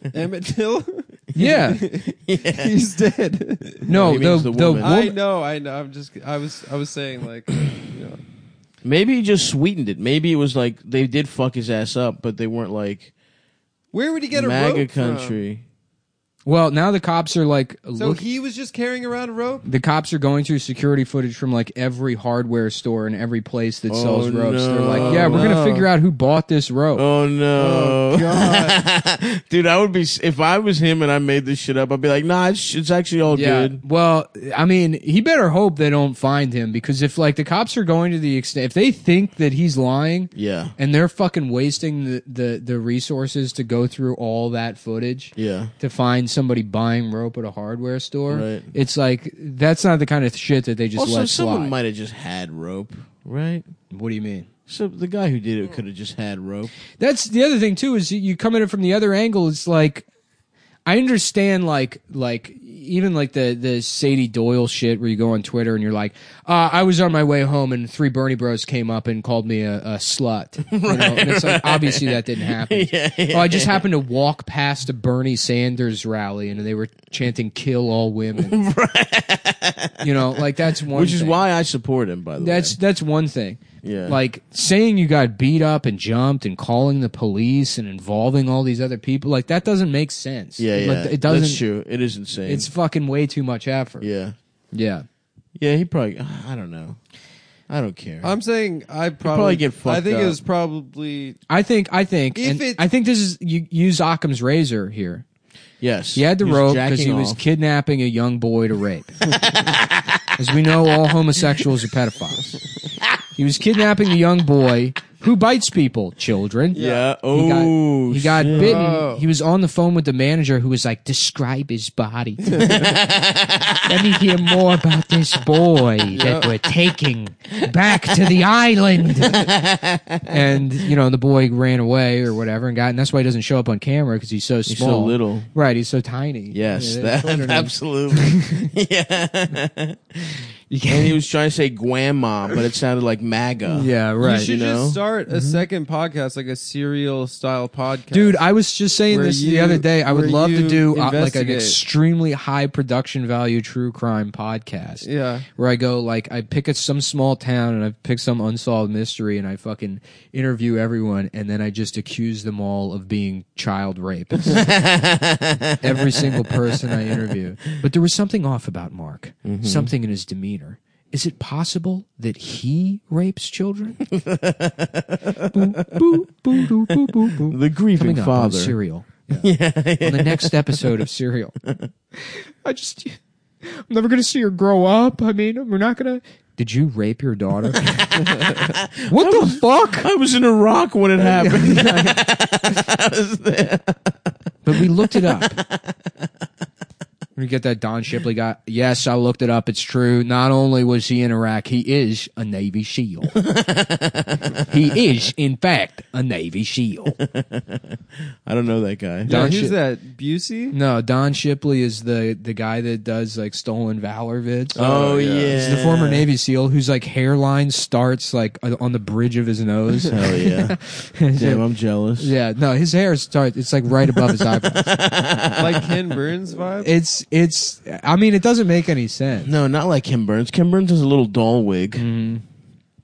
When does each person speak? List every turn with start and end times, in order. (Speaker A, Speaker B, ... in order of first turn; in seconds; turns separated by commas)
Speaker A: 0.1-3.9, Speaker B: 1.4-1.8, Speaker C: 2.3-2.7, Speaker C: 3.9-5.0, Speaker B: 3.9-5.2, Speaker A: 4.8-8.2, Speaker C: 8.8-13.1, Speaker A: 13.9-15.4, Speaker C: 14.3-15.6, Speaker B: 16.5-18.2, Speaker A: 18.0-19.7, Speaker B: 19.7-27.1, Speaker C: 23.9-25.5, Speaker A: 24.9-25.9, Speaker C: 26.9-33.8, Speaker A: 27.6-28.8, Speaker B: 33.3-51.7, Speaker C: 40.4-40.8, Speaker C: 45.4-45.7, Speaker C: 48.3-48.7, Speaker C: 51.0-53.7, Speaker B: 53.9-54.5, Speaker C: 54.7-56.7, Speaker B: 57.0-60.1, Speaker B: 60.9-78.6, Speaker C: 70.7-73.8, Speaker C: 78.4-82.8, Speaker B: 80.0-81.4, Speaker B: 82.4-91.6, Speaker C: 83.8-84.2, Speaker C: 90.6-92.7, Speaker B: 92.5-94.1, Speaker C: 94.0-94.4, Speaker B: 94.7-95.1, Speaker C: 95.6-97.0, Speaker C: 97.7-98.3, Speaker A: 98.2-101.4, Speaker C: 99.2-100.4, Speaker B: 101.5-105.2, Speaker A: 102.4-102.8, Speaker C: 105.8-107.4, Speaker B: 106.2-109.1, Speaker C: 109.4-110.3, Speaker B: 110.4-112.6, Speaker B: 113.4-122.8, Speaker C: 116.7-118.8, Speaker A: 116.7-117.1, Speaker A: 118.5-119.3, Speaker A: 122.5-122.8, Speaker C: 122.6-123.9, Speaker B: 123.9-129.5, Speaker A: 126.1-126.5, Speaker C: 129.2-130.4, Speaker B: 130.3-138.7, Speaker C: 134.7-135.5, Speaker C: 136.5-145.0, Speaker B: 140.7-141.2, Speaker B: 143.7-144.5, Speaker A: 144.2-148.4, Speaker B: 145.3-145.7, Speaker B: 148.1-155.1, Speaker A: 149.1-151.8, Speaker A: 155.0-155.5, Speaker B: 155.6-164.7, Speaker C: 164.4-167.3, Speaker B: 165.8-174.0, Speaker C: 169.4-169.9, Speaker C: 174.1-176.0, Speaker B: 175.5-179.5, Speaker C: 176.6-178.8, Speaker C: 179.3-180.9, Speaker B: 180.0-181.6, Speaker B: 182.2-188.4, Speaker C: 188.2-194.2, Speaker B: 189.1-190.1, Speaker B: 191.2-192.2, Speaker B: 194.7-195.6, Speaker C: 194.7-195.9, Speaker B: 197.4-203.3, Speaker C: 203.3-204.7, Speaker B: 204.7-207.2, Speaker C: 207.2-209.4, Speaker A: 209.3-210.8, Speaker B: 209.3-209.8, Speaker B: 210.7-214.9, Speaker A: 214.8-215.6, Speaker C: 214.8-216.2, Speaker B: 215.5-221.6, Speaker C: 220.1-220.8, Speaker C: 221.3-222.3, Speaker B: 222.2-224.9, Speaker C: 224.1-226.0, Speaker A: 225.6-226.9, Speaker B: 226.8-229.5, Speaker C: 229.4-232.1, Speaker B: 232.0-232.4